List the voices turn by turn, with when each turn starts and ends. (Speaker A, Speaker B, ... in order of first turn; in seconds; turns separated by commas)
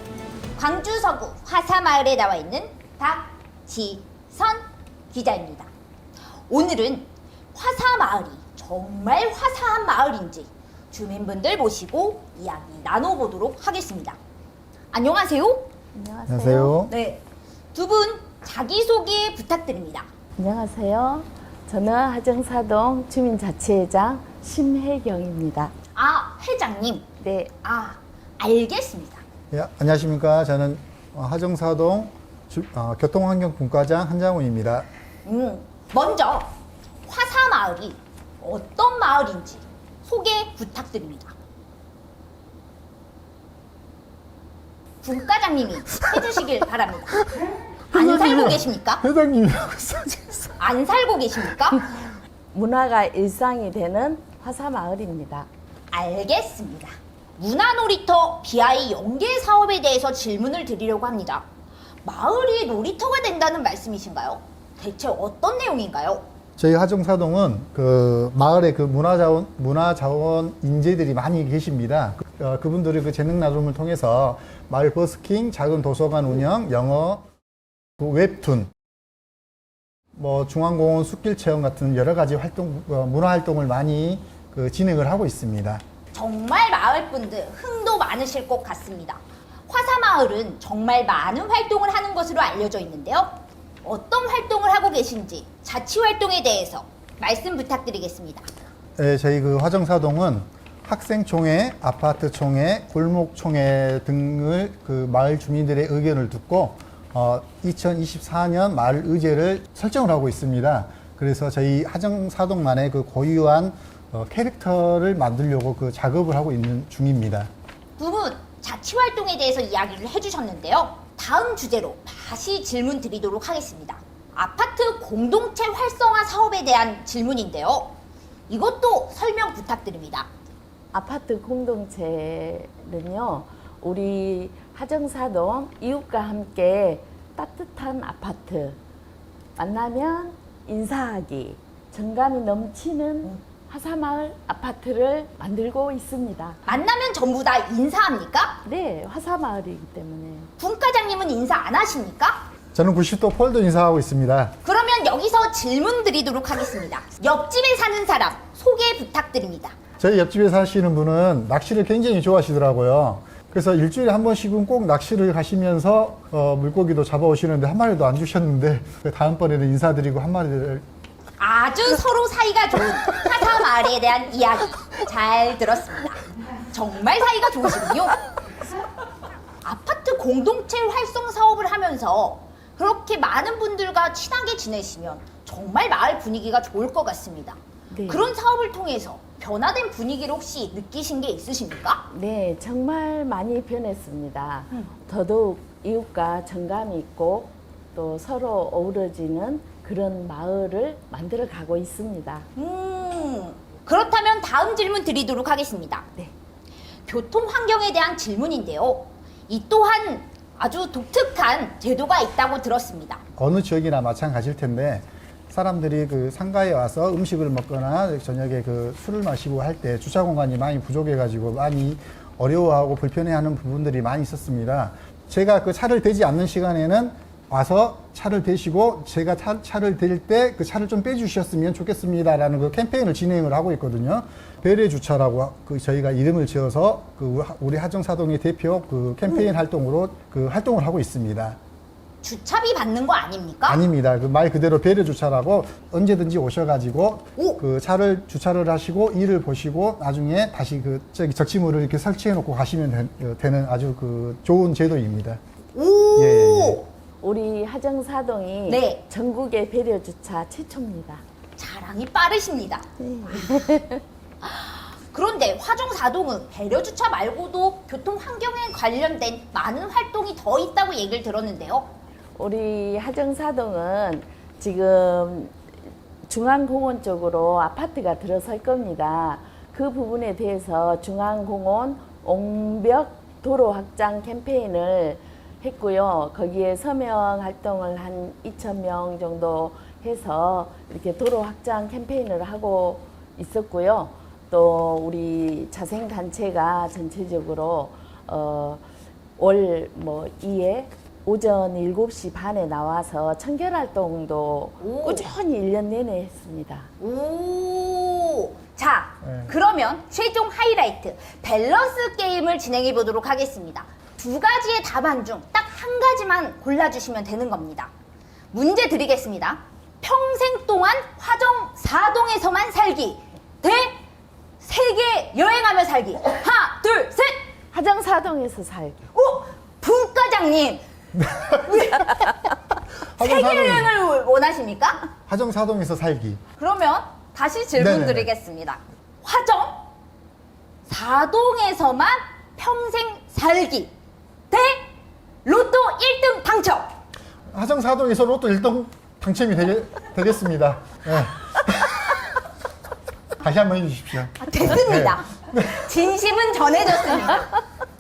Speaker A: 0.6-5.7, Speaker A: 6.5-14.2, Speaker A: 14.9-15.7, Speaker B: 15.9-16.8, Speaker C: 16.3-16.9, Speaker A: 16.9-17.2, Speaker A: 17.7-20.1, Speaker B: 20.4-25.7, Speaker A: 25.9-27.1, Speaker B: 27.2-27.5, Speaker A: 27.6-29.2, Speaker C: 29.5-34.9, Speaker A: 35.2-36.5, Speaker A: 37.0-41.3, Speaker A: 45.0-47.2, Speaker C: 47.9-50.6, Speaker A: 47.9-49.0, Speaker A: 50.6-51.9, Speaker B: 52.5-55.5, Speaker A: 55.9-61.5, Speaker A: 62.0-66.2, Speaker C: 66.6-77.2, Speaker C: 78.0-78.7, Speaker C: 80.1-85.8, Speaker A: 86.1-98.5, Speaker C: 99.0-117.5, Speaker A: 118.0-127.9, Speaker A: 128.5-130.3, Speaker B: 130.9-138.8, Speaker B: 139.6-146.6, Speaker A: 146.6-148.6, Speaker B: 148.6-150.5, Speaker A: 150.6-152.4, Speaker C: 152.7-154.5, Speaker A: 154.6-159.8, Speaker C: 160.0-170.8, Speaker A: 171.4-178.2, Speaker A: 179.6-192.0, Speaker B: 187.9-188.3, Speaker B: 192.1-202.5, Speaker A: 202.6-206.1, Speaker A: 207.1-213.2, Speaker C: 213.4-241.6, Speaker A: 242.2-243.8, Speaker C: 243.7-255.4, Speaker A: 255.7-256.9, Speaker C: 256.1-256.8, Speaker B: 257.2-261.2, Speaker A: 258.7-259.0, Speaker A: 261.6-262.9, Speaker B: 263.0-264.0, Speaker A: 264.4-271.9, Speaker B: 272.4-275.5, Speaker B: 276.3-298.8, Speaker B: 299.4-306.9, Speaker A: 304.8-305.3, Speaker A: 307.0-317.9, Speaker C: 309.2-309.5, Speaker A: 318.5-324.0, Speaker A: 324.6-327.4, Speaker B: 327.7-329.0, Speaker A: 329.1-330.8, Speaker C: 331.1-331.9, Speaker A: 331.5-332.3, Speaker C: 333.1-333.9, Speaker A: 333.2-335.0, Speaker C: 335.3-336.4, Speaker A: 336.6-339.8, Speaker C: 337.8-338.3, Speaker A: 340.9-343.9, Speaker A: 344.5-344.9, Speaker A: 345.4-346.9, Speaker C: 347.5-352.1, Speaker C: 353.4-355.7, Speaker A: 354.4-357.6